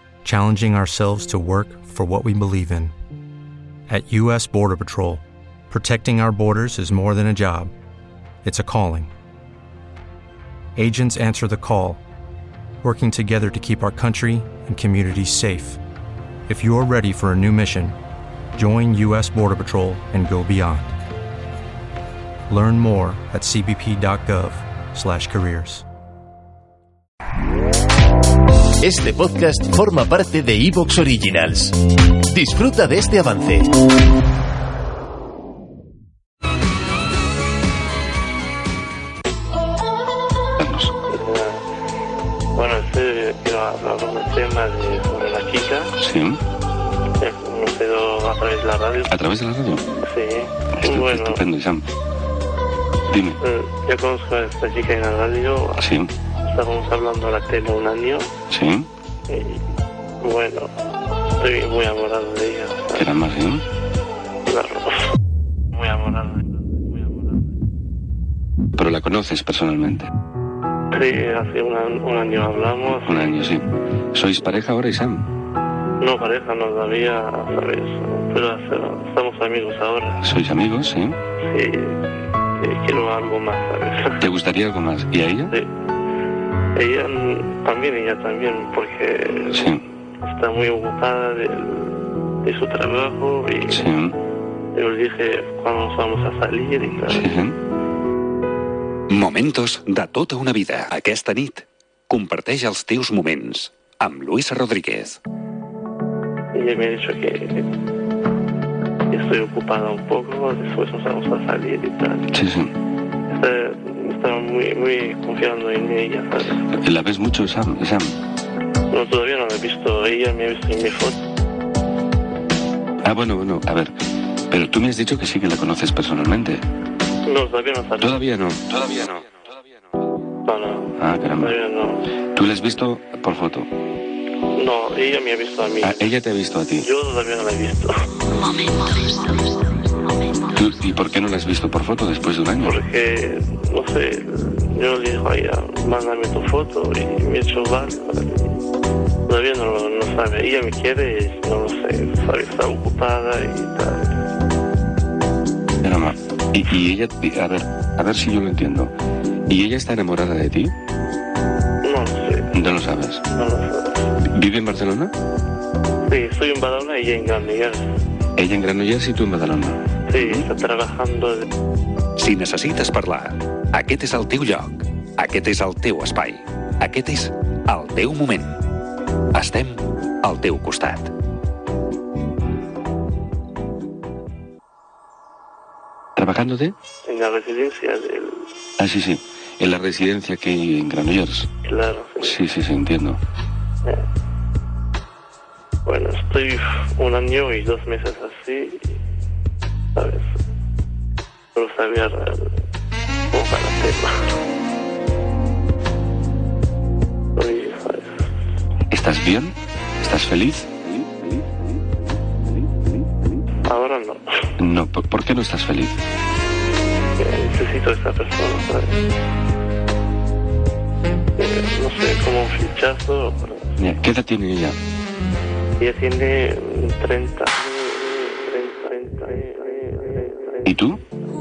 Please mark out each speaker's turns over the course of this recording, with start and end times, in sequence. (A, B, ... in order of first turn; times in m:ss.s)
0:00.2-0:02.9 A
0:03.9-0:07.7 A
0:08.4-0:09.1 A
0:10.8-0:12.0 A
0:12.8-0:15.8 A
0:16.5-0:17.9 A
0:18.5-0:20.9 A
0:22.5-0:25.8 A
0:28.8-0:31.8 B
0:32.3-0:33.7 B
0:40.6-0:40.9 C
0:41.1-0:41.6 D
0:42.5-0:45.9 D
0:46.0-0:46.4 C
0:47.2-0:49.2 D
0:49.1-0:49.8 C
0:50.0-0:51.4 D
0:50.8-0:51.8 C
0:53.1-0:53.4 C
0:53.4-0:55.8 D
0:55.8-0:56.1 C
0:56.4-0:58.3 D
0:58.5-0:58.9 C
0:59.3-0:59.6 D
1:00.2-1:00.7 D
1:01.3-1:03.1 D
1:03.0-1:03.6 C
1:04.5-1:05.0 D
1:05.7-1:07.3 D
1:08.8-1:10.1 C
1:10.9-1:13.5 D
1:13.0-1:15.3 C
1:16.0-1:20.2 D
1:20.2-1:21.2 C
1:21.4-1:22.0 D
1:22.6-1:24.2 D
1:24.2-1:25.6 C
1:26.7-1:29.7 D
1:29.5-1:29.8 C
1:30.2-1:33.8 D
1:33.7-1:34.2 C
1:34.7-1:37.3 D
1:37.1-1:37.6 C
1:39.1-1:45.2 E
1:46.5-1:47.7 D
1:49.1-1:52.2 D
1:52.3-1:52.7 C
1:53.3-1:56.6 D
1:56.7-1:58.2 C
1:58.9-2:01.2 D
2:03.0-2:06.6 C
2:07.2-2:08.2 D
2:08.0-2:09.3 C
2:10.5-2:12.1 D
2:11.0-2:11.6 C
2:12.3-2:13.7 C
2:14.5-2:16.1 D
2:15.8-2:16.9 C
2:16.8-2:17.9 D
2:20.5-2:22.8 C
2:22.6-2:28.6 D
2:29.3-2:34.2 D
2:35.8-2:38.9 C
2:39.5-2:40.7 C
2:41.8-2:42.6 D
2:42.5-2:43.2 C
2:43.3-2:44.1 D
2:44.2-2:45.1 C
2:46.0-2:47.8 D
2:48.4-2:50.5 C
2:50.1-2:51.4 D
2:52.2-2:58.6 E
2:59.3-3:01.1 E
3:06.2-3:06.7 C
3:07.0-3:08.5 D
3:08.8-3:11.5 C
3:11.6-3:12.4 D
3:12.2-3:13.2 C
3:15.8-3:18.9 D
3:20.0-3:20.3 D
3:21.5-3:22.5 D
3:23.3-3:24.2 D
3:27.4-3:28.2 D
3:28.9-3:31.5 C
3:32.6-3:33.0 C
3:33.6-3:34.4 D
3:34.6-3:36.0 C
3:37.2-3:39.0 D
3:41.4-3:43.8 D
3:43.8-3:44.8 C
3:45.8-3:50.7 D
3:50.6-3:51.0 C